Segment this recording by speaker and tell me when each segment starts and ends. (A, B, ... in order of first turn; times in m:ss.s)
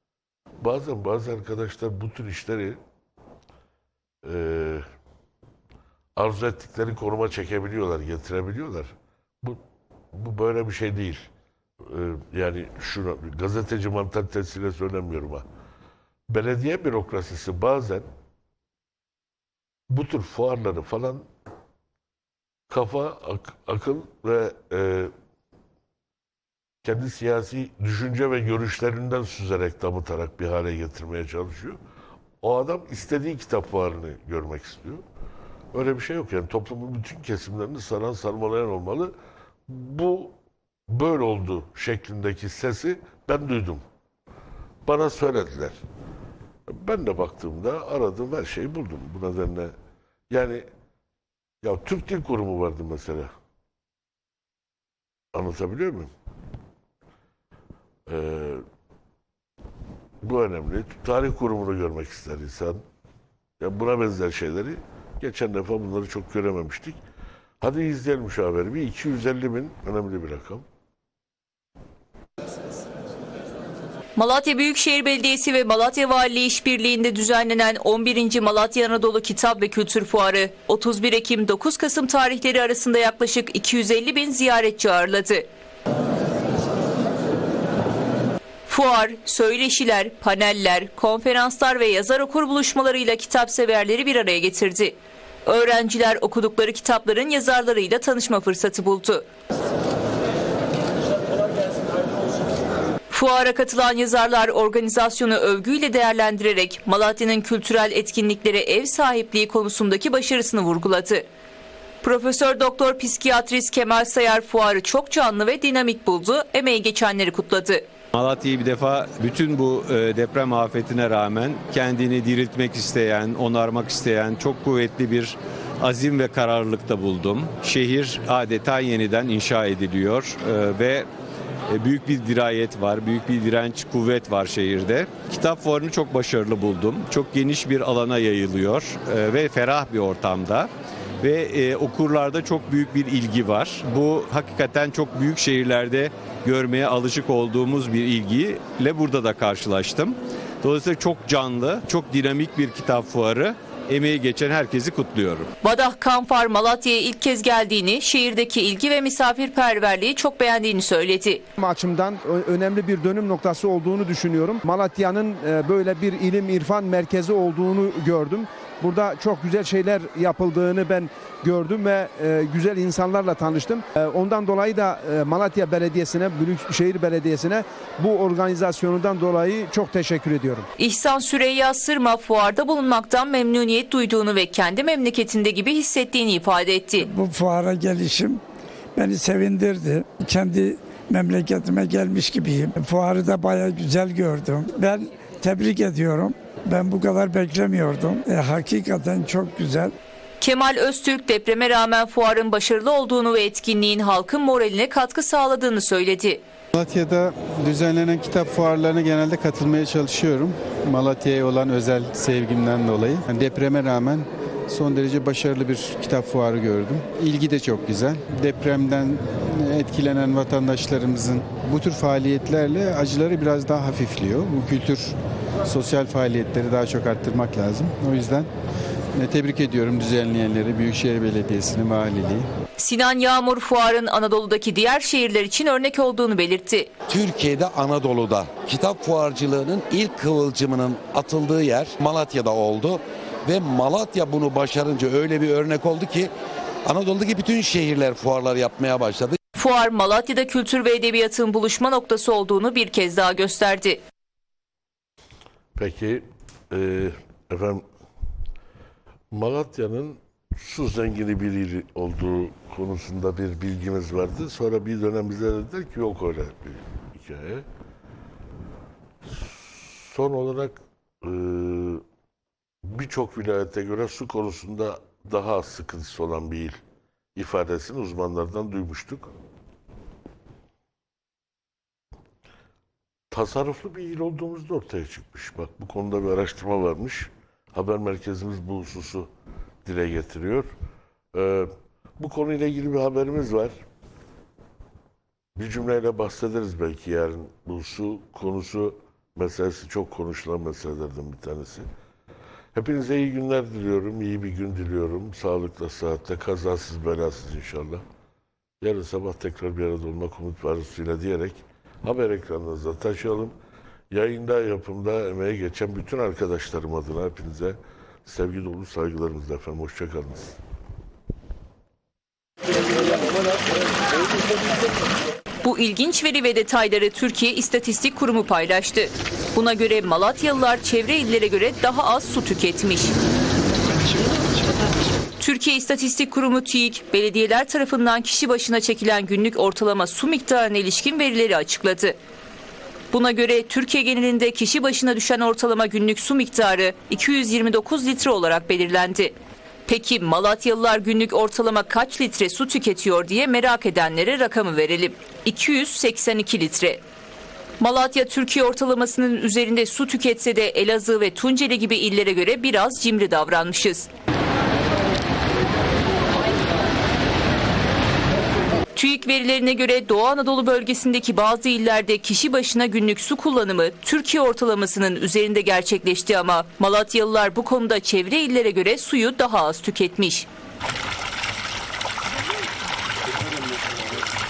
0:00.6-0:02.8 A
0:04.2-0:04.8 A
0:06.2-0:09.6 A
0:10.1-0:11.3 A
0:11.8-0:15.4 A
0:16.3-0:18.1 A
0:19.9-0:21.2 A
0:22.7-0:25.1 A
0:26.8-0:31.8 A
0:32.4-0:35.0 A
0:35.7-0:39.1 A
0:39.7-0:40.3 A
0:40.9-0:43.8 A
0:44.8-0:45.8 A
0:46.7-0:49.7 A
0:50.3-0:50.6 A
0:51.6-0:53.3 A
0:55.3-0:56.1 A
0:58.1-0:58.6 A
1:00.2-1:02.8 A
1:03.6-1:07.0 A
1:07.6-1:10.6 A
1:14.2-1:25.5 B
1:28.7-1:39.2 B
1:43.1-1:51.2 B
1:52.0-1:57.9 B
1:58.1-2:11.1 C
2:11.7-2:35.5 C
2:35.6-2:41.4 B
2:41.6-3:00.7 D
3:00.8-3:07.1 B
3:07.0-3:08.4 E
3:09.0-3:19.9 E
3:20.4-3:26.4 B
3:26.7-3:48.5 F
3:49.1-3:52.5 F
3:52.8-3:56.9 B
3:57.1-4:06.3 G
4:06.9-4:09.4 G
4:09.6-4:14.0 B
4:15.8-4:17.8 A
4:19.3-4:27.7 A
4:29.2-4:32.0 A
4:32.8-4:36.8 A
4:37.4-4:39.3 A
4:43.3-4:49.3 A
4:49.8-4:50.7 A
4:51.3-4:53.7 A
4:55.6-5:01.9 A
5:02.8-5:08.0 A
5:08.8-5:13.5 A
5:14.1-5:20.6 A
5:25.6-5:33.1 B
5:35.4-5:42.2 B
5:43.1-5:49.4 B
5:49.9-5:57.0 B
5:57.8-6:04.1 B
6:09.0-6:20.5 B